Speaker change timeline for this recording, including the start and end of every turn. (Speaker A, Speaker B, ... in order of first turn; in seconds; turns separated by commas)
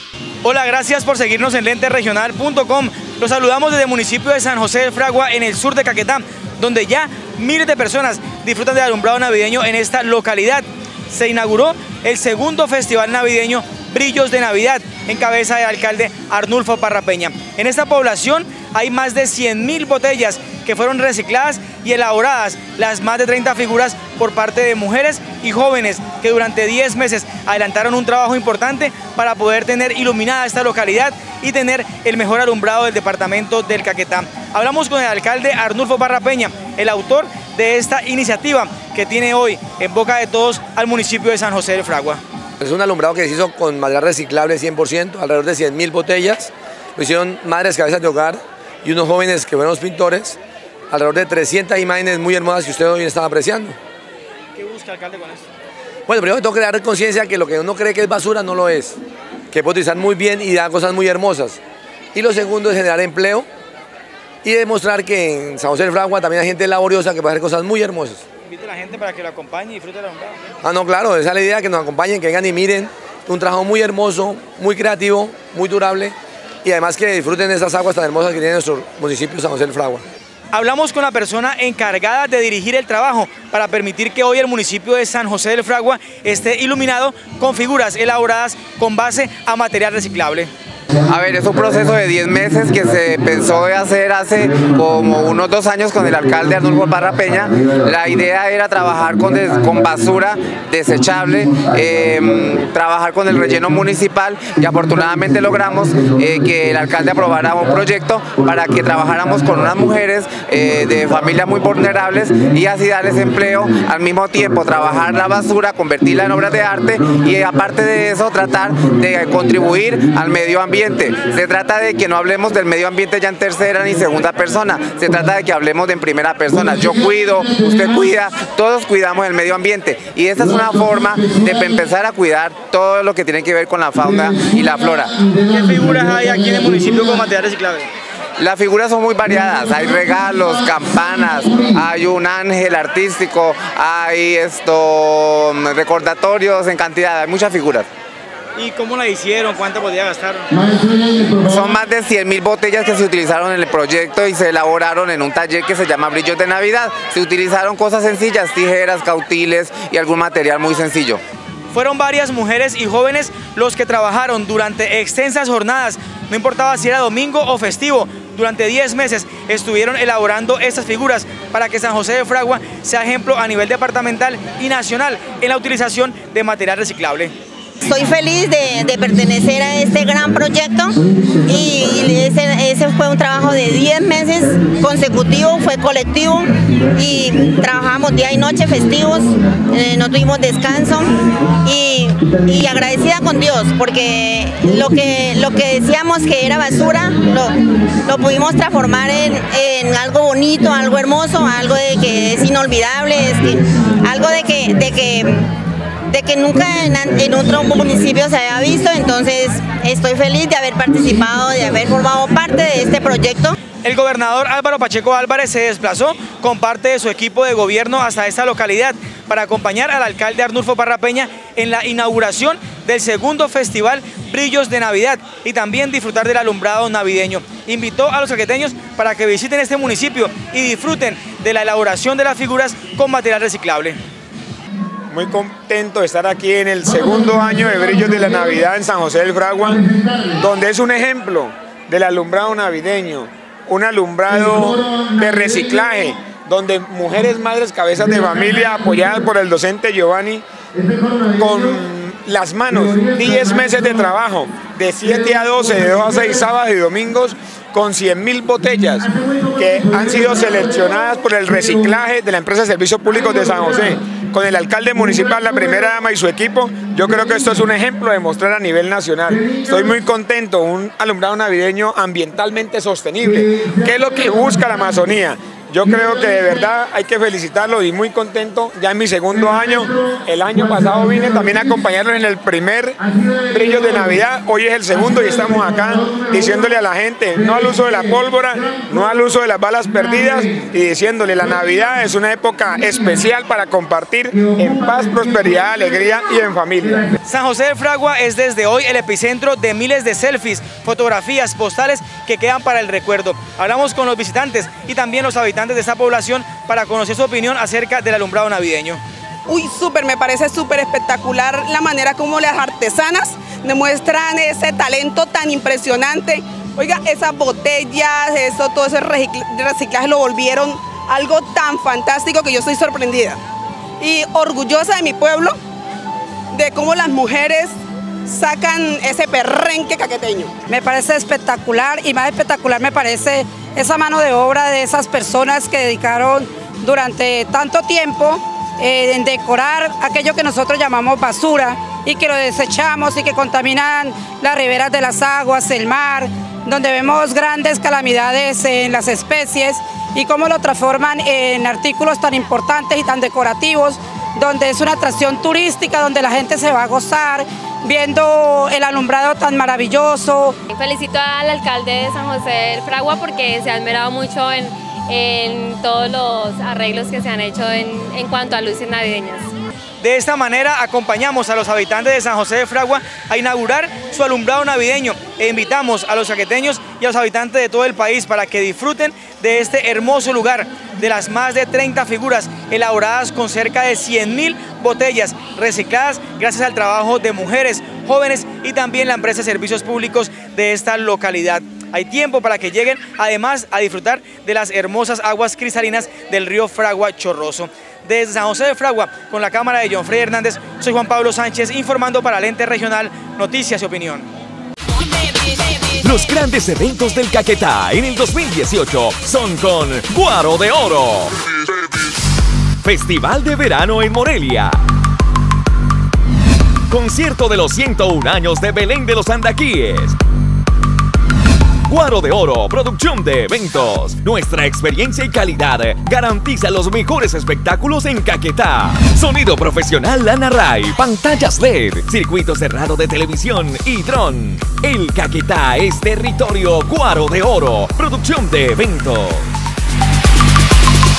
Speaker A: 0.4-42.2, Speaker B: 42.6-50.4, Speaker B: 50.9-53.8, Speaker A: 54.6-55.5, Speaker B: 56.1-59.0, Speaker B: 59.5-61.6, Speaker B: 62.1-63.5, Speaker B: 64.4-68.2, Speaker A: 68.5-70.4, Speaker B: 70.6-80.0, Speaker A: 80.5-90.5, Speaker C: 91.1-135.1, Speaker A: 135.4-137.9, Speaker C: 138.4-147.9, Speaker A: 148.6-150.9, Speaker C: 151.2-161.2, Speaker A: 161.7-177.3, Speaker D: 177.8-205.5, Speaker D: 206.1-213.6, Speaker A: 213.8-234.0, Speaker E: 235.1-250.4, Speaker E: 251.3-297.1, Speaker A: 297.3-309.0, Speaker F: 309.5-323.4, Speaker F: 324.0-325.6, Speaker F: 326.5-327.7, Speaker F: 328.3-330.5, Speaker G: 330.7-360.6, Speaker H: 360.7-369.5, Speaker A: 370.0-404.3, Speaker I: 406.0-411.3, Speaker I: 412.8-414.8, Speaker I: 416.9-420.2, Speaker I: 421.9-439.5